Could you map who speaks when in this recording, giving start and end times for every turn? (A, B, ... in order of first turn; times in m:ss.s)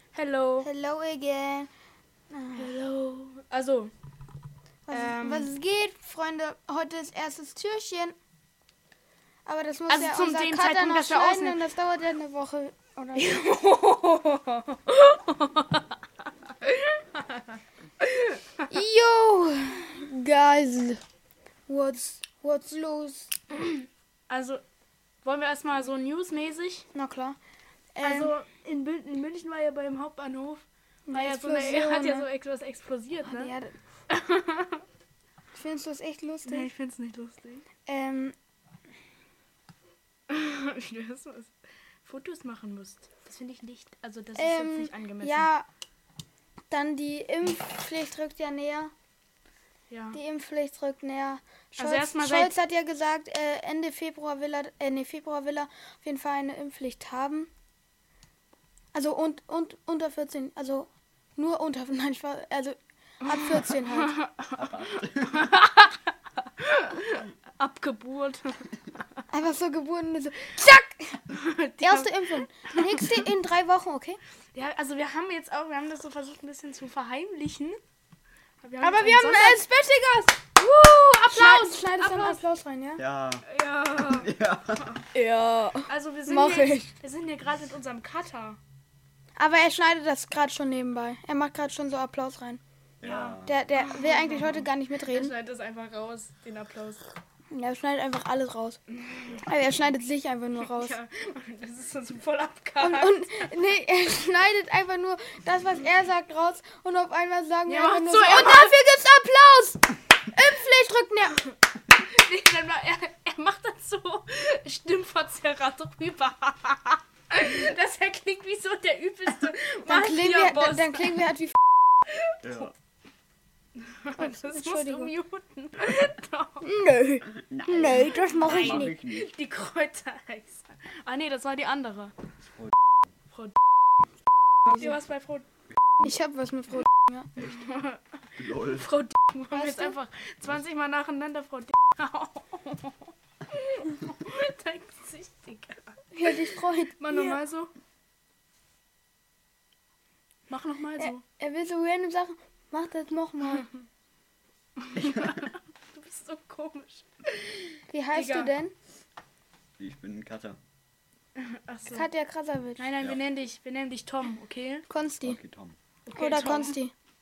0:00.1-0:00.7 A
0:00.6-0:01.7 B
0:02.3-0:02.7 B
0:02.5-0:03.9 A
0:04.9-0:08.2 B
0:04.9-0:05.5 A
0:09.4-0:13.3 B
0:09.9-0:11.6 A
0:13.1-0:15.9 A
0:16.6-0:17.4 A
0:18.0-0:18.6 A
0:18.7-0:21.0 B
0:21.7-0:23.3 B
0:23.6-0:24.6 A
0:25.2-0:26.8 A
0:26.9-0:27.4 B
0:27.9-0:28.3 B
0:28.0-0:33.5 A
0:31.1-0:32.2 B
0:33.2-0:33.7 B
0:34.1-0:34.8 A
0:35.5-0:36.7 B
0:36.4-0:37.6 A
0:37.8-0:38.3 B
0:40.3-0:41.5 A
0:42.0-0:45.5 A
0:44.3-0:45.7 B
0:46.7-0:48.9 B
0:49.9-0:50.2 A
0:50.1-0:57.5 B
0:51.8-0:52.5 A
0:58.9-1:04.2 B
1:03.2-1:04.5 A
1:04.5-1:05.5 C
1:05.3-1:08.7 A
1:09.3-1:11.2 B
1:11.3-1:13.0 A
1:11.8-1:14.2 B
1:14.5-1:17.8 A
1:18.6-1:19.6 A
1:18.8-1:23.0 B
1:21.2-1:22.4 A
1:23.0-1:25.0 C
1:23.4-1:24.3 A
1:25.1-1:26.9 B
1:25.8-1:28.6 A
1:29.4-1:32.6 B
1:33.0-1:33.6 C
1:33.0-1:37.1 A
1:33.4-1:35.3 B
1:37.5-1:38.8 B
1:38.9-1:39.4 A
1:39.4-1:41.0 B
1:40.6-1:43.5 A
1:42.8-1:51.4 B
1:47.7-1:48.7 A
1:52.0-2:01.2 A
1:59.8-2:01.6 B
2:02.1-2:02.6 A
2:02.4-2:02.7 C
2:03.8-2:06.7 A
2:04.2-2:05.1 B
2:06.6-2:08.9 B
2:07.3-2:09.3 C
2:07.8-2:12.1 A
2:12.4-2:12.7 C
2:14.6-2:15.4 A
2:16.0-2:17.3 B
2:17.4-2:18.0 A
2:18.4-2:18.9 C
2:18.7-2:26.1 A
2:19.5-2:20.0 B
2:26.1-2:27.4 B
2:27.0-2:27.7 A
2:30.5-2:31.2 A
2:31.0-2:33.7 B
2:34.8-2:38.5 A
2:34.9-2:35.5 C
2:37.9-2:38.7 B
2:39.8-2:40.6 C
2:41.4-2:42.1 A
2:41.9-2:42.9 B
2:42.8-2:44.9 A
2:44.9-2:45.4 B
2:45.2-2:45.8 C
2:46.1-2:46.8 A
2:46.1-2:46.9 B